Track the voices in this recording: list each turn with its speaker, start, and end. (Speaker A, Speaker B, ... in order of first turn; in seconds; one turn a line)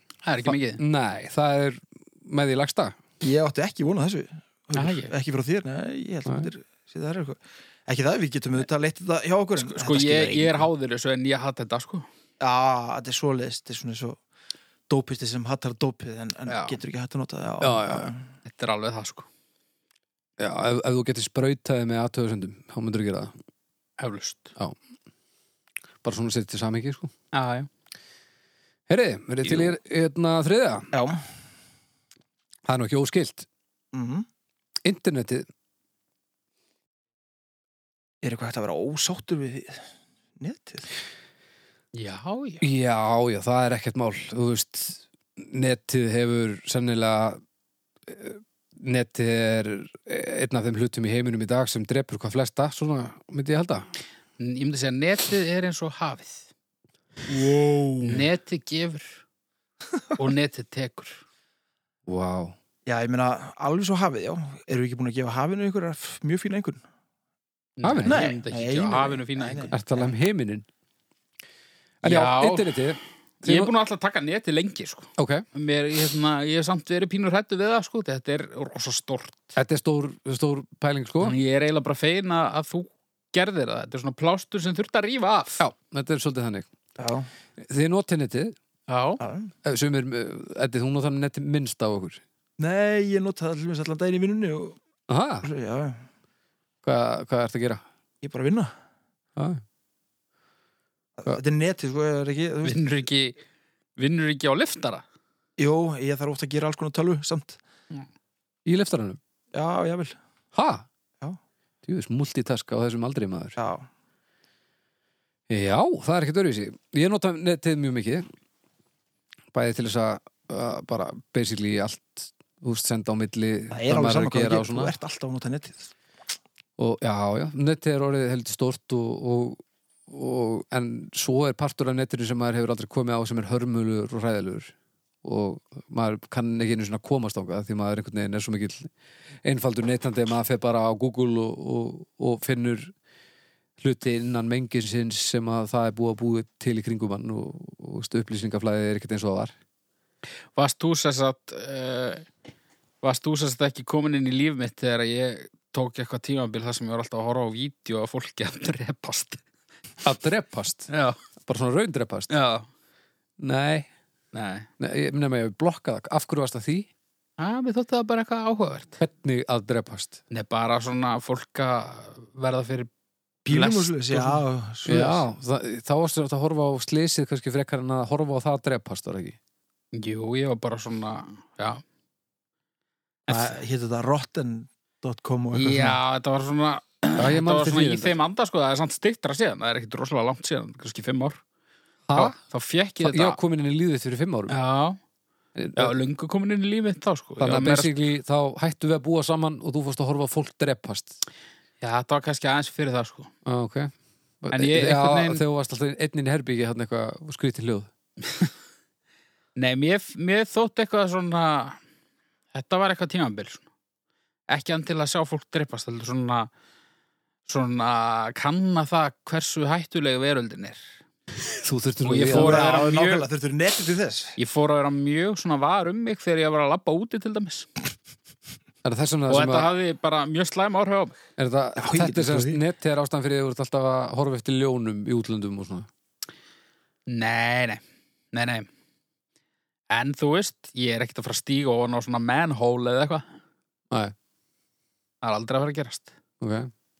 Speaker A: 0.2-0.8
Speaker B: 0.5-3.0
Speaker C: 3.2-10.7
Speaker A: 4.7-5.1
Speaker A: 9.6-12.1
Speaker C: 12.4-14.2
Speaker C: 14.9-18.2
Speaker A: 16.5-16.8
Speaker B: 17.6-18.1
Speaker A: 18.4-19.3
Speaker B: 20.4-23.3
Speaker A: 24.0-24.5
Speaker B: 26.0-27.1
Speaker A: 27.3-27.7
Speaker B: 28.9-30.9
Speaker C: 30.9-31.2
Speaker B: 32.6-33.5
Speaker C: 33.9-34.2
Speaker B: 34.8-35.5
Speaker C: 38.2-39.8
Speaker C: 40.4-40.9
Speaker A: 41.9-42.6
Speaker B: 42.6-47.4
Speaker B: 48.1-53.9
Speaker A: 54.4-56.5
Speaker C: 57.3-58.2
Speaker A: 58.0-59.2
Speaker A: 60.2-61.2
Speaker B: 62.0-62.5
Speaker C: 62.9-66.8
Speaker A: 67.8-69.7
Speaker B: 67.8-68.2
Speaker C: 68.0-70.1
Speaker B: 69.7-70.7
Speaker B: 72.0-73.7
Speaker A: 72.0-72.8
Speaker A: 73.4-79.5
Speaker B: 75.2-75.4
Speaker B: 79.5-81.3
Speaker A: 81.2-85.6
Speaker B: 85.6-86.7
Speaker C: 87.0-87.3
Speaker B: 87.6-88.5
Speaker A: 88.9-89.2
Speaker C: 89.2-89.5
Speaker B: 89.6-92.2
Speaker C: 92.6-94.8
Speaker B: 95.1-95.5
Speaker C: 95.4-96.0
Speaker B: 96.8-97.8
Speaker C: 98.2-98.7
Speaker B: 99.3-99.6
Speaker C: 101.2-102.8
Speaker A: 102.6-103.4
Speaker A: 104.0-105.0
Speaker C: 105.6-107.6
Speaker B: 108.7-109.2
Speaker C: 109.5-110.2
Speaker B: 110.5-110.8
Speaker B: 111.8-113.6
Speaker C: 113.6-113.9
Speaker B: 115.5-118.2
Speaker B: 119.5-124.9
Speaker C: 123.7-125.9
Speaker B: 126.8-134.7
Speaker B: 135.2-138.9
Speaker B: 139.4-142.9
Speaker B: 143.8-149.5
Speaker A: 150.5-152.3
Speaker A: 153.0-159.4
Speaker B: 160.0-160.9
Speaker A: 160.9-161.2
Speaker B: 161.4-162.3
Speaker A: 162.3-162.7
Speaker B: 163.4-163.9
Speaker A: 164.3-164.7
Speaker B: 164.8-166.9
Speaker A: 167.4-169.0
Speaker B: 169.0-170.2
Speaker A: 170.3-172.9
Speaker C: 173.4-175.2
Speaker A: 173.5-174.4
Speaker B: 174.8-179.4
Speaker A: 179.9-181.8
Speaker A: 183.3-183.6
Speaker C: 183.3-186.0
Speaker A: 185.5-191.4
Speaker B: 187.2-188.1
Speaker B: 192.1-192.3
Speaker A: 192.1-193.4
Speaker B: 193.0-194.5
Speaker A: 194.5-195.0
Speaker B: 195.6-195.9
Speaker A: 195.8-197.9
Speaker B: 197.4-201.2
Speaker A: 201.8-203.3
Speaker B: 203.4-207.9
Speaker A: 204.5-205.4
Speaker A: 209.6-211.8
Speaker A: 212.5-213.7
Speaker A: 214.5-216.5
Speaker A: 217.5-220.8
Speaker B: 221.6-222.6
Speaker A: 222.0-223.2
Speaker C: 222.3-224.4
Speaker A: 224.4-227.7
Speaker B: 228.8-229.7
Speaker A: 229.3-231.2
Speaker B: 231.4-235.9
Speaker C: 231.8-232.6
Speaker A: 237.1-238.7
Speaker A: 239.9-243.2
Speaker A: 245.2-246.1
Speaker B: 246.4-246.7